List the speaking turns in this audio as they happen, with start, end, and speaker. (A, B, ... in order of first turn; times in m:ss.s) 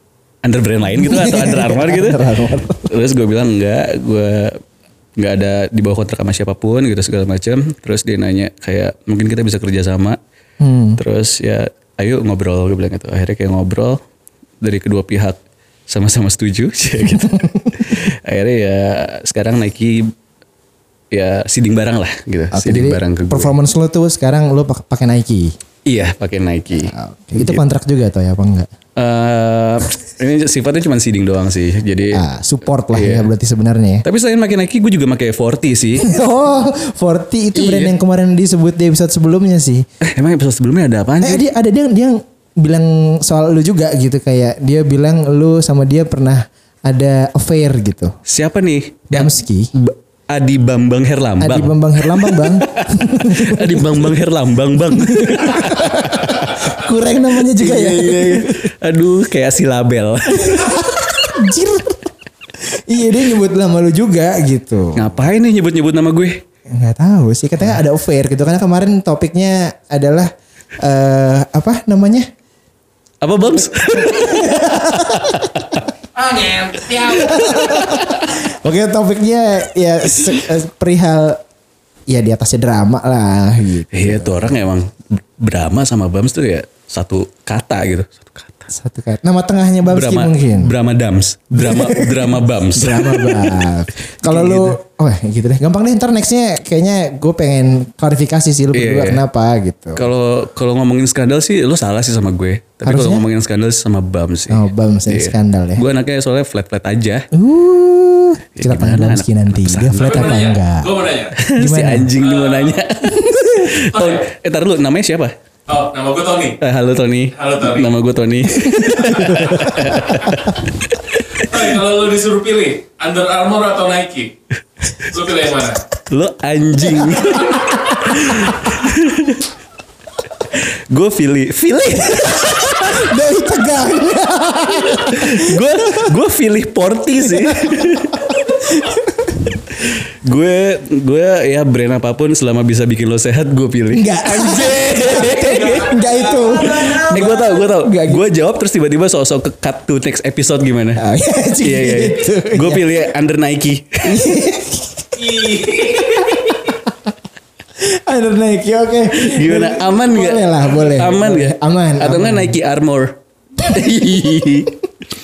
0:00.4-0:02.2 A
0:01.0-0:02.9 B
0:02.8-0:04.6 A
0:05.2-0:10.2 A
0:10.6-0:11.0 B
0:11.0-0:14.0 A
0:14.6-0:20.1 A
0:17.1-0:17.8 B
0:21.1-0:23.5 A
0:22.5-0:25.5 B
0:25.9-0:27.6 A
0:26.9-0:28.7 B
0:29.0-0:32.2 A
0:32.1-0:34.0 B
0:32.9-0:33.3 A
0:34.0-0:36.1 A
0:36.0-0:39.8 B
0:37.6-0:37.9 A
0:40.0-0:41.4 A
0:41.2-0:48.1 B
0:48.2-0:56.7 A
0:49.1-0:49.7 B
0:51.4-0:54.1 B
0:55.0-0:58.7 B
0:57.5-1:01.0 A
1:00.3-1:02.0 B
1:02.7-1:05.2 B
1:05.0-1:06.4 A
1:06.7-1:12.3 B
1:13.2-1:15.8 A
1:14.0-1:15.6 B
1:16.2-1:21.4 B
1:17.2-1:18.2 A
1:22.1-1:24.4 B
1:23.9-1:28.7 A
1:28.7-1:30.7 B
1:29.9-1:33.7 A
1:31.6-1:40.0 B
1:34.2-1:34.8 A
1:38.7-1:39.2 A
1:40.0-1:47.3 A
1:42.8-1:43.3 B
1:44.5-1:45.8 B
1:47.3-1:50.9 B
1:48.6-1:50.4 A
1:50.0-1:51.4 C
1:51.4-1:55.3 A
1:51.6-1:52.1 B
1:52.2-1:52.8 C
1:53.1-1:53.8 B
1:53.9-1:54.3 C
1:55.7-1:56.6 C
1:56.6-2:01.5 A
1:57.4-1:57.9 C
1:58.7-2:00.2 B
1:59.2-1:59.6 C
2:01.4-2:04.3 C
2:05.1-2:05.8 C
2:06.1-2:09.4 A
2:06.9-2:08.9 B
2:10.5-2:13.0 A
2:12.2-2:16.1 B
2:14.8-2:18.3 A
2:17.2-2:19.5 B
2:19.8-2:25.9 A
2:23.9-2:28.2 B
2:25.4-2:26.9 C
2:26.6-2:31.0 A
2:31.0-2:33.0 B
2:31.6-2:34.3 A
2:34.0-2:36.9 B
2:35.3-2:36.3 A
2:37.8-2:42.6 B
2:39.1-2:44.9 A